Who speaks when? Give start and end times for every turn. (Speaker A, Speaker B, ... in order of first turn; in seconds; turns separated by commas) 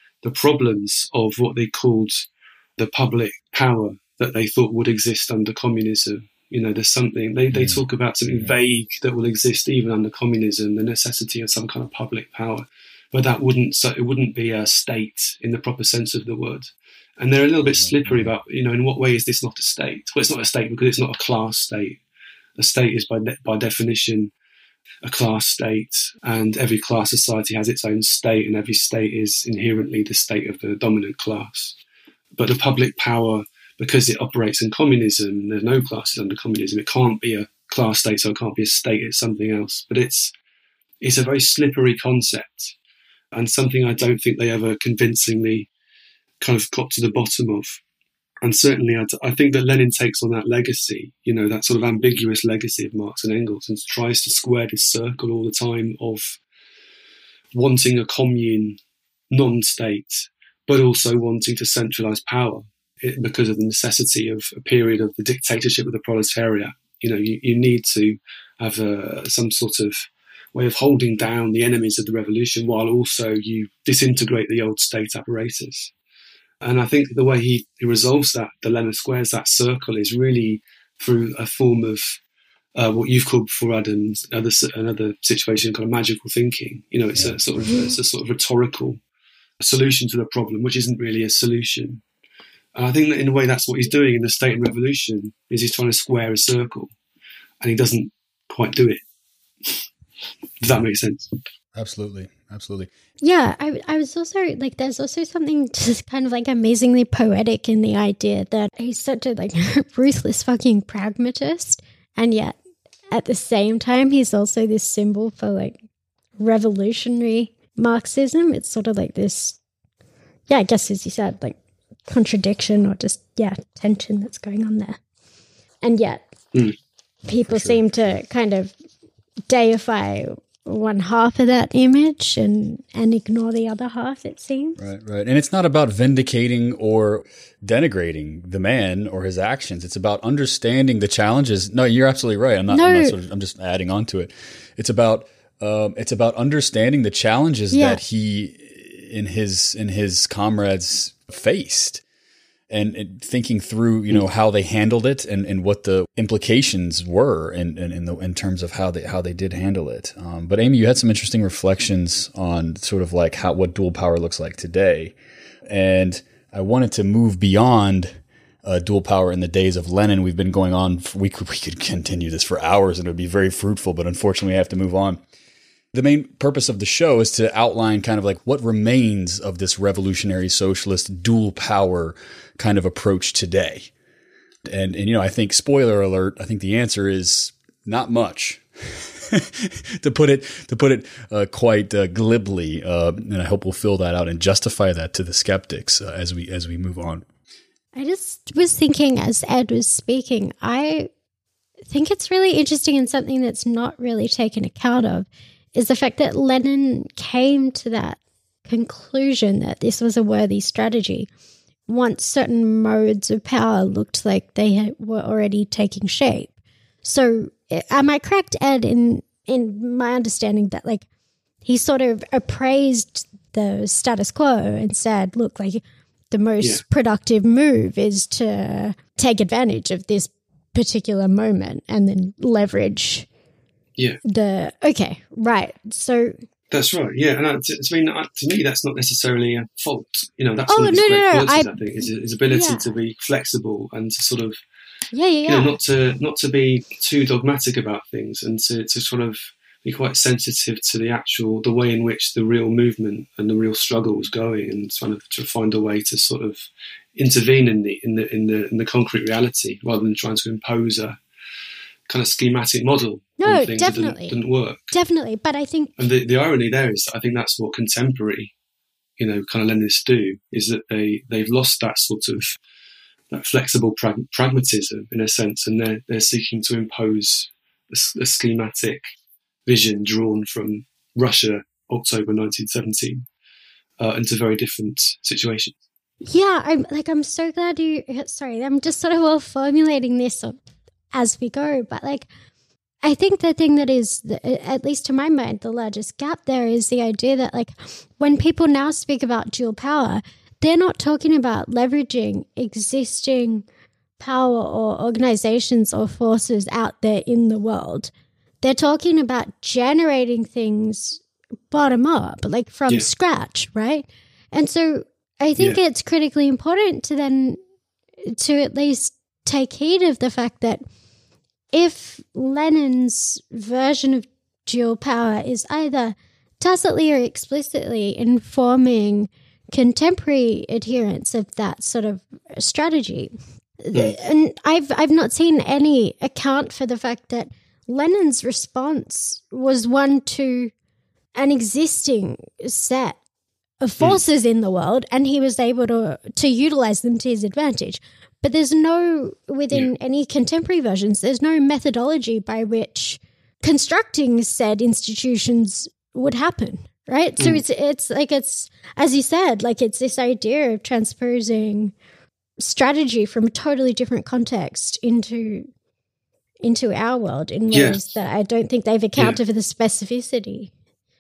Speaker A: 0.2-22.0, Speaker B: 7.5-8.5, Speaker B: 17.6-18.3, Speaker A: 22.6-24.3, Speaker A: 25.0-31.8, Speaker A: 32.4-40.3, Speaker A: 41.0-42.7, Speaker A: 43.3-45.7, Speaker A: 46.4-47.8, Speaker A: 48.4-56.4, Speaker A: 57.5-58.8, Speaker A: 59.3-75.9, Speaker A: 76.6-82.2, Speaker A: 82.8-89.0, Speaker A: 89.6-92.0, Speaker A: 92.8-96.9, Speaker A: 97.6-99.0, Speaker A: 100.6-101.3, Speaker B: 101.8-102.9, Speaker C: 103.2-112.6, Speaker C: 113.1-115.8, Speaker C: 116.4-119.6, Speaker C: 120.5-121.5, Speaker C: 122.1-125.0, Speaker C: 125.8-126.3, Speaker B: 127.3-127.8, Speaker C: 127.3-128.8, Speaker C: 129.5-134.8, Speaker B: 134.8-152.0, Speaker C: 142.7-143.2, Speaker C: 147.7-148.0, Speaker B: 152.7-165.1, Speaker B: 165.7-175.2, Speaker B: 175.9-183.9, Speaker B: 184.7-197.2, Speaker C: 197.9-201.1, Speaker C: 201.9-211.3, Speaker C: 211.9-216.5, Speaker C: 217.0-221.1, Speaker C: 221.7-233.3, Speaker C: 234.3-236.4, Speaker A: 236.7-244.6, Speaker C: 240.7-242.8, Speaker C: 245.1-245.8, Speaker A: 245.5-261.2, Speaker A: 262.1-264.9, Speaker C: 263.4-264.4, Speaker C: 264.9-266.0, Speaker A: 266.0-268.5, Speaker A: 269.2-272.6, Speaker A: 273.3-279.1, Speaker A: 279.7-283.3, Speaker A: 284.0-285.8, Speaker C: 286.2-290.6, Speaker C: 291.1-292.3, Speaker C: 293.0-303.6, Speaker C: 304.2-308.1, Speaker C: 308.6-317.6, Speaker C: 318.3-320.8, Speaker C: 321.7-340.7, Speaker C: 341.4-343.2, Speaker C: 343.8-361.9, Speaker C: 362.6-365.7, Speaker C: 366.6-370.7, Speaker A: 367.7-368.0